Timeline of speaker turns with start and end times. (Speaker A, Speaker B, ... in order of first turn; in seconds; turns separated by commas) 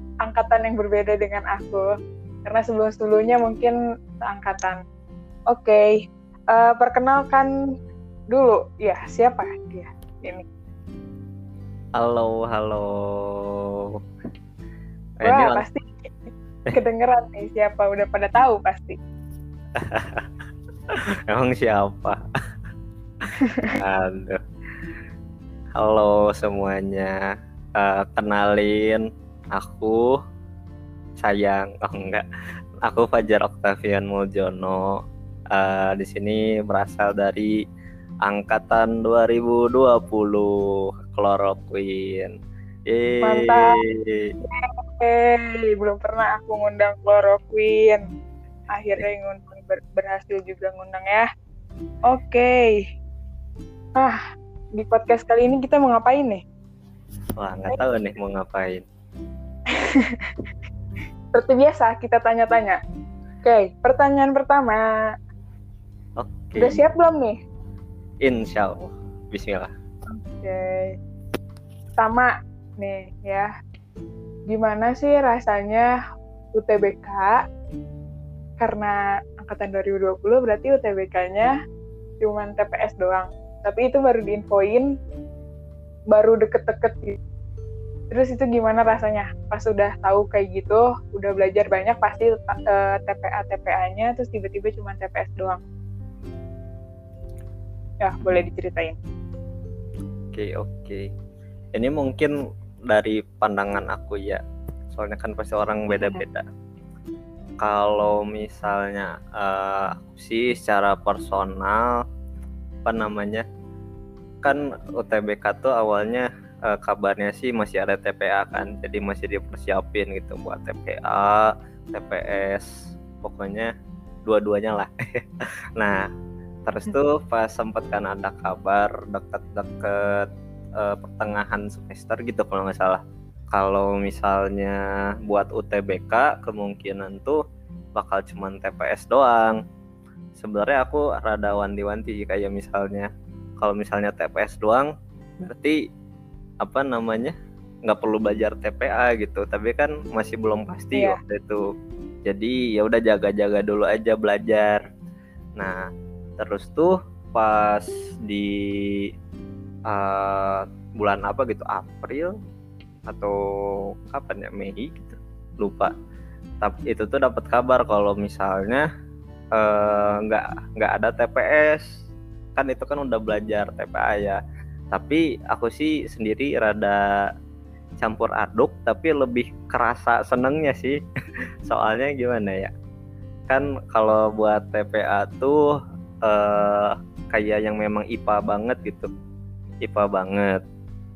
Speaker A: 0.2-1.9, Speaker A: 2.5-4.8, Speaker A: 5.5-7.5, Speaker A: 8.3-10.4, Speaker B: 12.0-13.9, Speaker B: 15.2-15.6, Speaker A: 15.2-16.1, Speaker A: 16.7-19.0, Speaker B: 19.8-20.3, Speaker B: 20.9-22.2, Speaker A: 23.4-23.8, Speaker B: 23.6-24.4, Speaker B: 25.8-27.2, Speaker B: 27.8-29.0, Speaker B: 29.5-30.2, Speaker B: 31.2-32.2, Speaker B: 32.8-35.0, Speaker B: 35.5-37.5, Speaker B: 38.2-40.5, Speaker B: 41.1-42.3, Speaker B: 42.9-44.3, Speaker A: 43.2-43.8, Speaker A: 44.4-48.0, Speaker A: 48.7-51.3, Speaker A: 52.1-52.9, Speaker A: 54.0-54.2, Speaker A: 54.8-56.4, Speaker B: 57.4-58.8, Speaker A: 59.7-60.4, Speaker A: 61.3-62.8, Speaker A: 63.4-64.8, Speaker B: 66.2-66.8, Speaker A: 66.6-67.4, Speaker B: 68.2-69.7, Speaker A: 70.1-71.0, Speaker A: 72.0-73.5, Speaker A: 74.5-75.9, Speaker A: 76.5-77.4, Speaker A: 78.6-81.5, Speaker A: 82.2-84.9, Speaker A: 86.1-87.2, Speaker A: 88.1-95.6, Speaker A: 98.0-99.0, Speaker B: 100.3-101.1, Speaker B: 101.7-102.3, Speaker B: 102.9-106.4, Speaker A: 105.9-106.2, Speaker B: 107.6-112.0, Speaker B: 112.8-113.5, Speaker B: 114.4-122.7, Speaker B: 123.2-123.7, Speaker B: 124.3-125.2, Speaker B: 125.8-126.1, Speaker B: 126.7-137.4, Speaker B: 138.0-139.6, Speaker B: 140.4-143.1, Speaker B: 143.6-145.8, Speaker B: 146.6-151.6, Speaker A: 150.9-151.2, Speaker B: 152.3-154.9, Speaker B: 155.6-155.9, Speaker B: 156.4-159.1, Speaker B: 159.9-162.3, Speaker B: 163.1-165.9, Speaker B: 166.6-168.9, Speaker B: 169.6-171.9, Speaker B: 172.6-174.4, Speaker B: 174.9-177.0, Speaker B: 178.0-181.0, Speaker B: 181.7-182.7, Speaker B: 183.5-185.7, Speaker B: 186.2-189.1, Speaker B: 189.8-190.6